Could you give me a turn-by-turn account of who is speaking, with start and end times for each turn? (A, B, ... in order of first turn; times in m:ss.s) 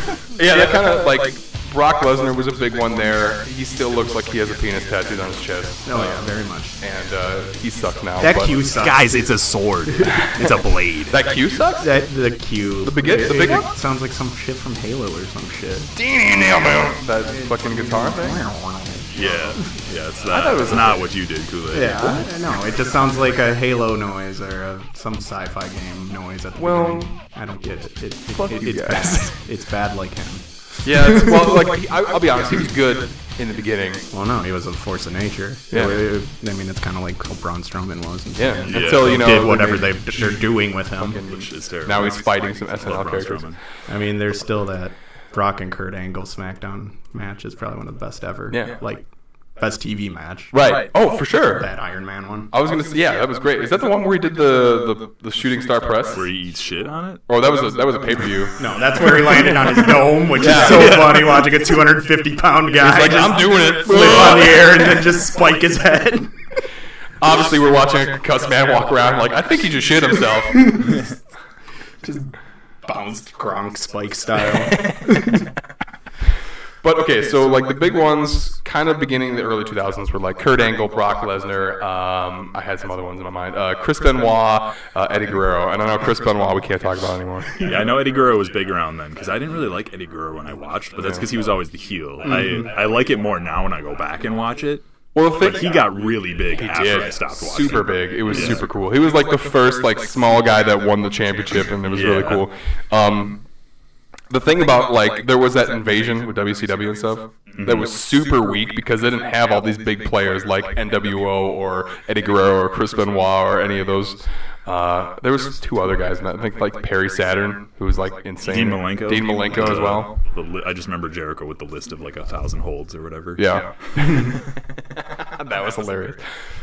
0:00.4-0:08.9 A
0:05.8-0:06.8 B
0:08.2-0:10.8 B
0:08.8-0:11.2 C
0:10.1-0:11.9 A
0:11.7-0:15.9 B
0:12.8-0:13.7 A
0:16.0-0:18.4 A
0:17.4-0:19.6 B
0:19.1-0:22.2 C
0:20.3-0:21.1 A
0:21.7-0:30.9 B
0:26.6-0:27.2 A
0:28.3-0:29.3 A
0:30.8-0:34.0 A
0:34.1-0:41.2 B
0:35.7-0:36.0 A
0:38.3-0:43.6 A
0:38.6-0:39.4 C
0:41.2-0:43.6 C
0:43.9-0:50.7 B
0:48.5-0:48.8 A
0:50.5-0:51.7 A
0:51.4-0:52.5 B
0:52.5-0:56.3 A
0:56.1-0:57.2 C
0:57.3-1:01.3 A
0:58.6-1:06.4 B
1:00.7-1:01.3 C
1:02.8-1:05.1 A
1:07.2-1:10.8 A
1:12.0-1:12.3 B
1:12.8-1:15.4 B
1:16.8-1:27.7 A
1:27.6-1:38.6 C
1:31.0-1:31.3 A
1:32.2-1:32.7 B
1:35.2-1:35.8 A
1:36.6-1:43.4 A
1:41.9-1:42.4 C
1:44.3-2:00.2 A
1:47.5-1:47.9 C
1:58.4-2:03.7 C
2:03.4-2:04.4 A
2:05.2-2:06.2 A